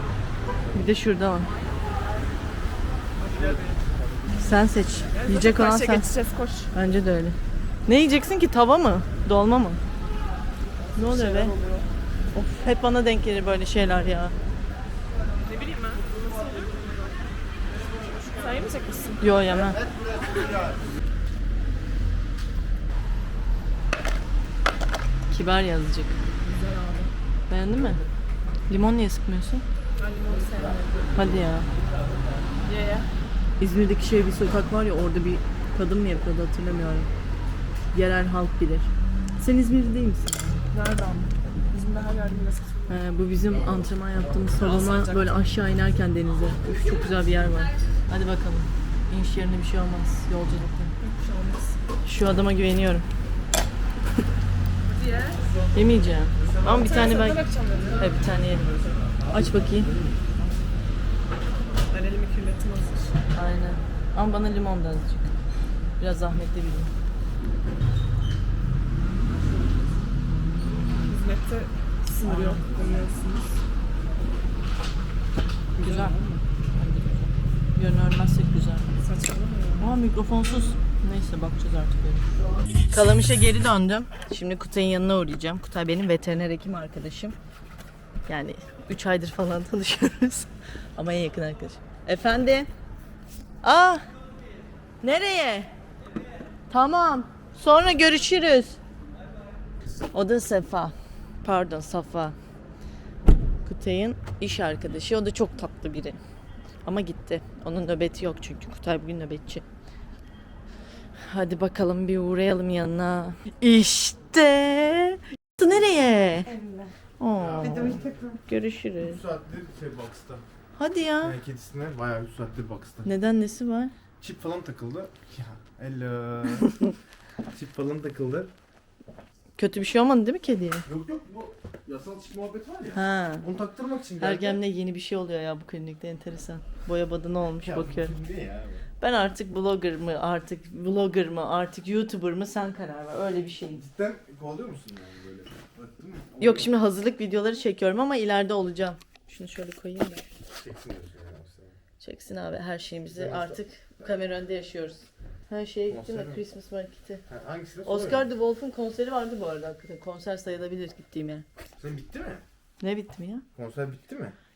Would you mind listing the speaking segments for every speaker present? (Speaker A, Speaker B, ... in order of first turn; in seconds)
Speaker A: 0.7-1.5, 4.4-6.1, 6.7-9.8, 11.0-11.6, 12.3-14.3, 19.2-19.9, 25.3-26.2, 27.5-28.0, 28.7-29.6, 31.1-31.7, 33.6-37.1, 37.9-40.6, 42.9-50.9, 52.0-53.1, 55.8-58.7, 59.3-59.9, 63.4-65.3, 66.0-66.9, 70.6-71.1, 72.2-72.6, 75.8-76.2, 76.8-78.9, 79.8-82.3, 82.9-87.4, 88.3-92.7, 93.6-94.0, 95.0-95.7, 96.7-98.8, 100.1-102.3, 103.7-106.2, 106.8-109.6, 111.3-116.6, 117.2-119.2, 120.8-121.4, 123.0-123.9, 129.6-130.9, 132.9-133.5, 134.2-138.1, 139.0-143.9, 146.4-150.3, 152.0-157.2, 157.8-161.4, 162.8-163.4
Speaker B: 3.2-3.8, 5.1-6.7, 11.1-11.9, 15.4-17.0, 18.1-19.2, 20.2-20.6, 26.4-27.1, 30.0-31.1, 32.6-33.1, 40.7-43.0, 44.6-45.4, 51.0-51.8, 54.9-55.4, 56.7-58.1, 61.9-63.2, 71.0-73.5, 75.8-76.4, 79.0-80.0
Speaker C: 117.5-118.4, 119.0-120.5, 121.2-123.1, 124.2-126.7, 127.5-128.5, 130.9-134.6, 137.6-138.8, 143.9-146.7, 150.5-151.8, 153.1-153.6, 155.9-156.4, 157.3-158.3, 161.8-162.4, 163.6-164.4